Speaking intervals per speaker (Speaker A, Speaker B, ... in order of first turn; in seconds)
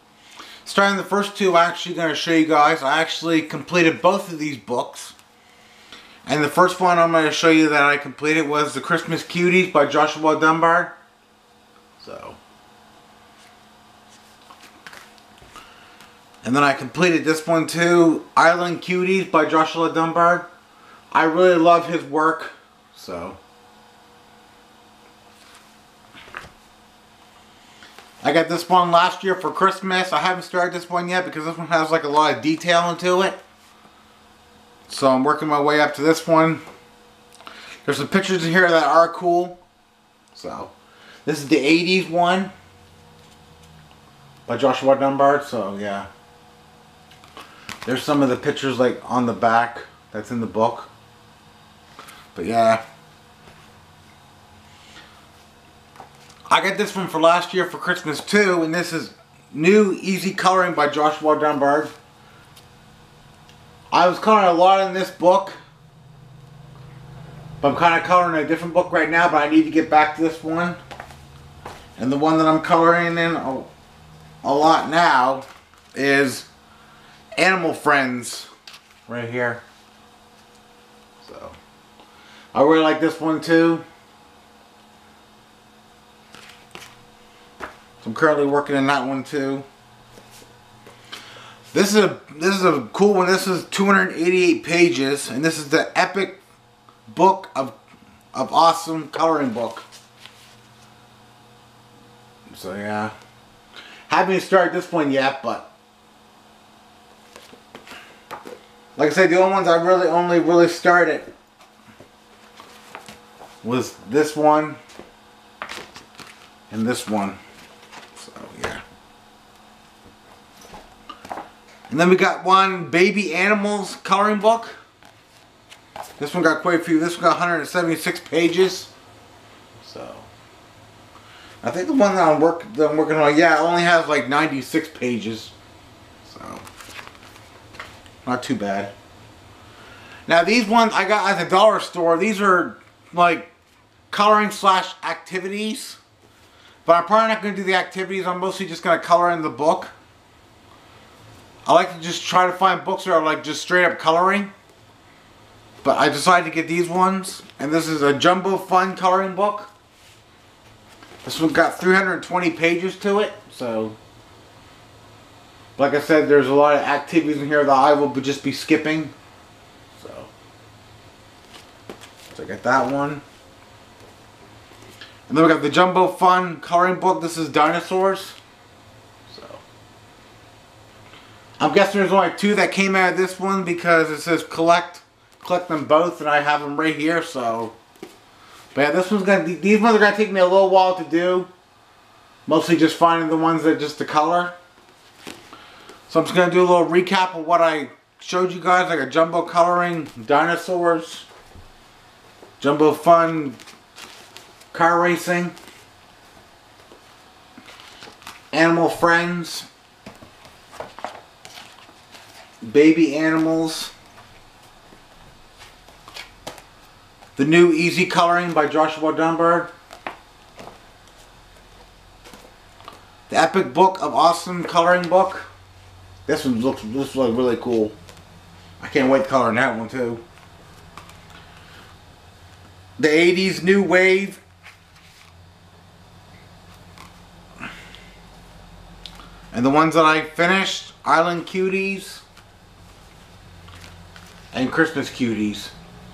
Speaker A: 0.6-5.1, 6.2-10.9, 12.0-12.4, 16.4-20.5, 21.1-23.4, 28.2-33.4, 34.9-36.6, 37.8-39.6, 40.3-40.7, 41.2-42.5, 44.5-46.1, 47.8-50.9, 52.3-52.8, 56.5-61.9, 63.9-65.5, 67.6-70.8, 72.0-73.7, 74.4-76.5, 77.3-78.5, 79.1-79.6, 81.2-81.6, 82.5-83.8, 88.0-89.6, 91.7-96.4, 97.1-97.8, 98.3-99.8, 102.5-103.1, 104.1-105.7, 109.0-111.3, 113.6-114.8, 116.7-117.4, 118.1-118.8, 121.9-124.7, 126.2-128.9, 129.8-130.3, 131.6-135.5, 136.2-136.6, 138.2-138.9, 140.3-143.5, 144.1-146.0, 146.8-149.9, 151.6-154.5, 155.8-159.7, 161.2-164.0, 165.8-169.1, 170.0-170.3, 172.3-173.2, 175.3-178.4, 179.3-179.6, 181.6-187.7, 188.7-191.5, 192.4-194.6, 196.1-201.3, 202.6-203.6, 204.7-205.5, 208.5-209.7, 212.6-213.9, 217.3-219.7, 223.3-225.5, 226.2-227.9, 228.8-230.2, 233.0-234.4, 239.5-242.2, 244.5-245.7